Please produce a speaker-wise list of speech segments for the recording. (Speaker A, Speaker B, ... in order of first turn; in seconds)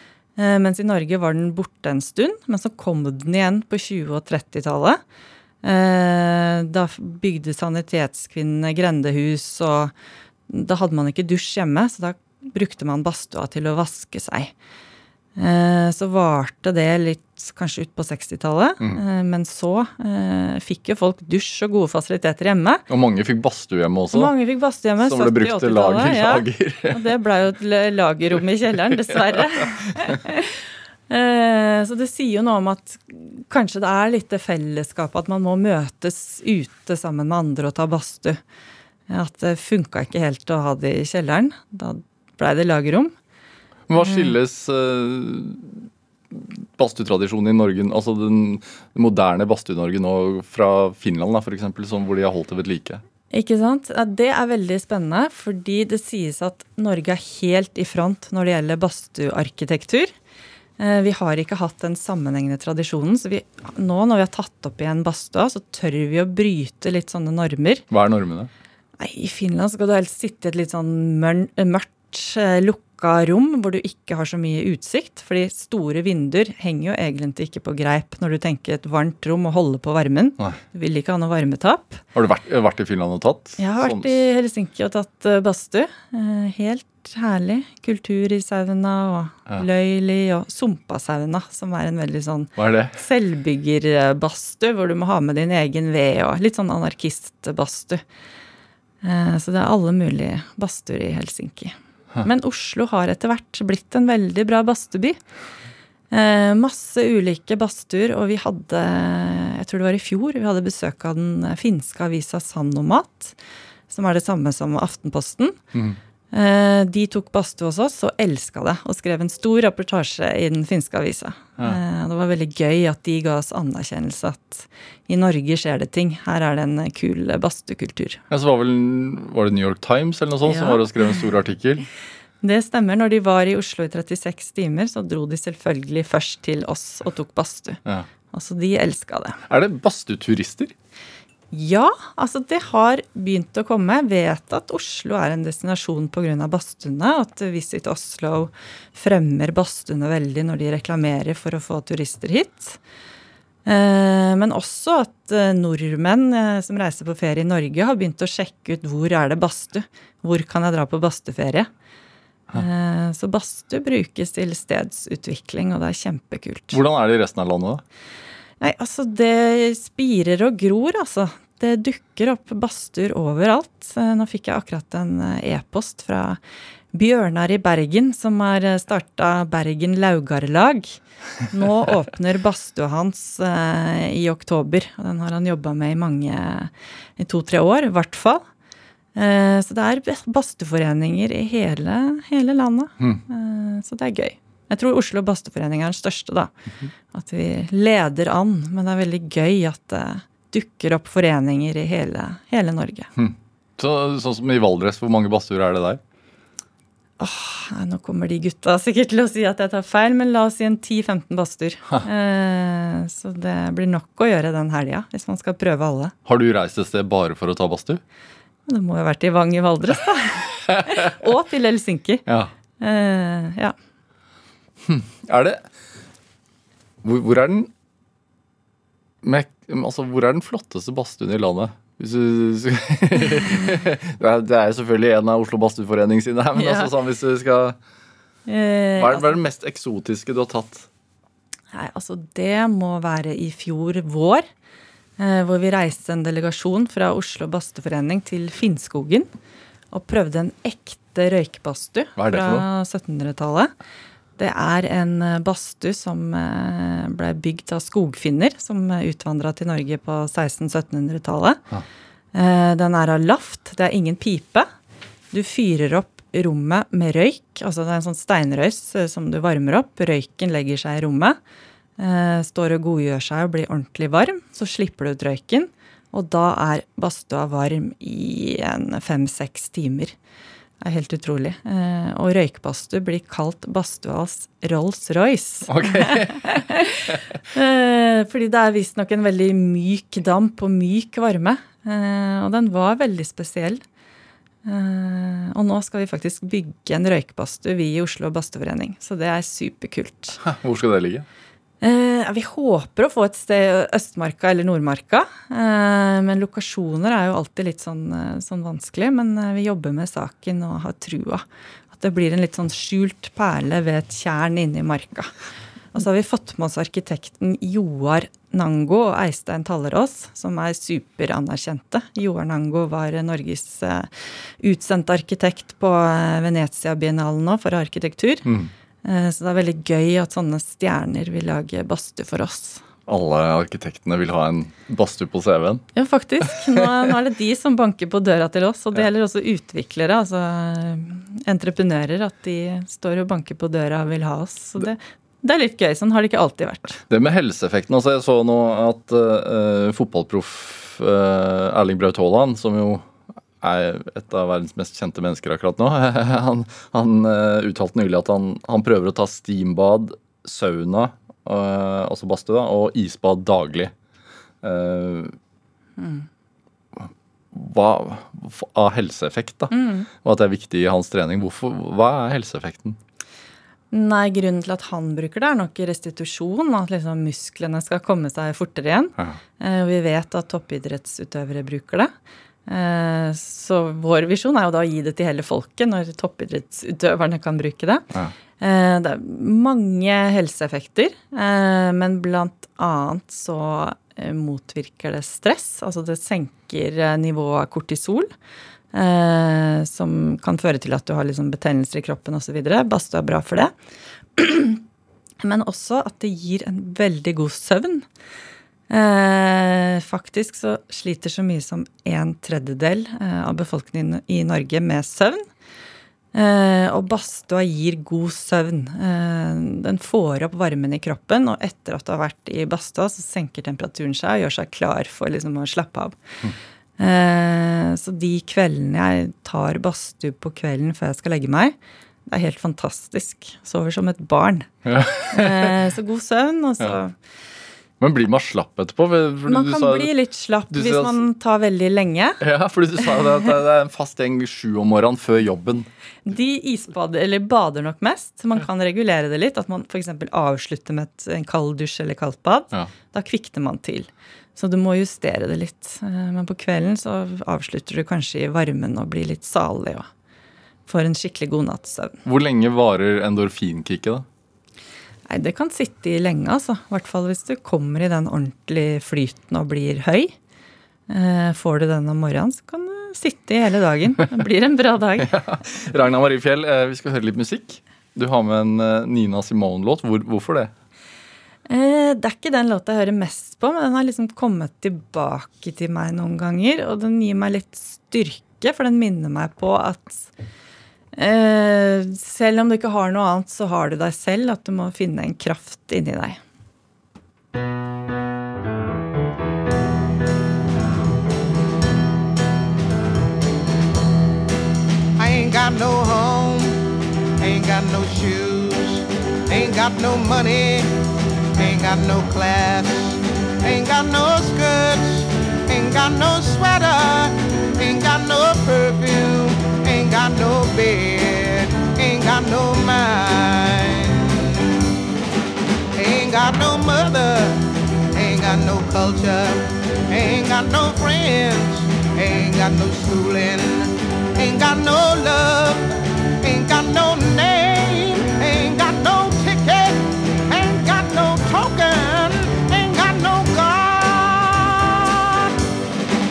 Speaker A: 0.4-5.0, 5.6-9.9, 10.5-14.5, 15.4-22.8, 24.1-38.4, 39.1-43.1, 44.0-44.3, 53.3-60.1, 60.8-67.8, 69.0-82.0, 83.6-98.0, 99.0-105.2, 106.1-113.3, 113.9-115.6, 116.3-128.2, 130.5-130.8, 132.4-139.4, 141.5-152.8, 153.7-161.7, 162.5-166.8, 168.6-176.4, 176.9-188.4, 189.2-196.5, 197.1-203.1, 207.2-216.1, 218.7-222.2, 222.8-223.8, 236.6-236.9, 238.5-239.4, 241.7-244.4, 245.2-249.3, 249.9-253.7, 254.4-261.6, 262.3-264.7, 265.3-271.4, 272.0-280.1, 280.8-293.8, 294.6-300.4, 301.8-315.3, 315.9-324.1, 324.6-328.5, 329.0-332.9, 335.9-347.0, 366.0-366.3, 369.7-370.1, 373.9-382.1, 382.7-388.1, 388.6-398.3, 398.9-403.7, 404.4-404.8, 405.4-408.1, 408.9-415.5, 416.3-426.2, 427.0-431.8, 432.3-434.8, 435.3-437.1, 439.5-442.4, 446.3-460.1, 460.9-462.2, 465.3-470.4, 471.1-475.3, 481.7-490.3, 491.1-496.4
Speaker B: 22.9-24.3, 25.0-27.1, 43.9-53.0, 67.9-68.5, 82.2-84.2, 92.6-93.0, 128.3-131.9, 139.5-140.7, 166.7-167.8, 203.2-206.0, 216.2-218.0, 224.8-225.7, 227.0-227.7, 229.2-237.8, 239.0-240.9, 252.2-252.7, 285.7-286.4, 300.4-301.3, 328.4-328.7, 333.1-335.9, 347.1-363.9, 364.6-365.4, 367.0-373.0, 434.9-435.8, 438.0-440.1, 440.7-441.2, 442.4-445.9, 462.2-464.2, 475.2-480.7
Speaker C: 505.2-511.0, 511.5-524.6, 526.0-545.6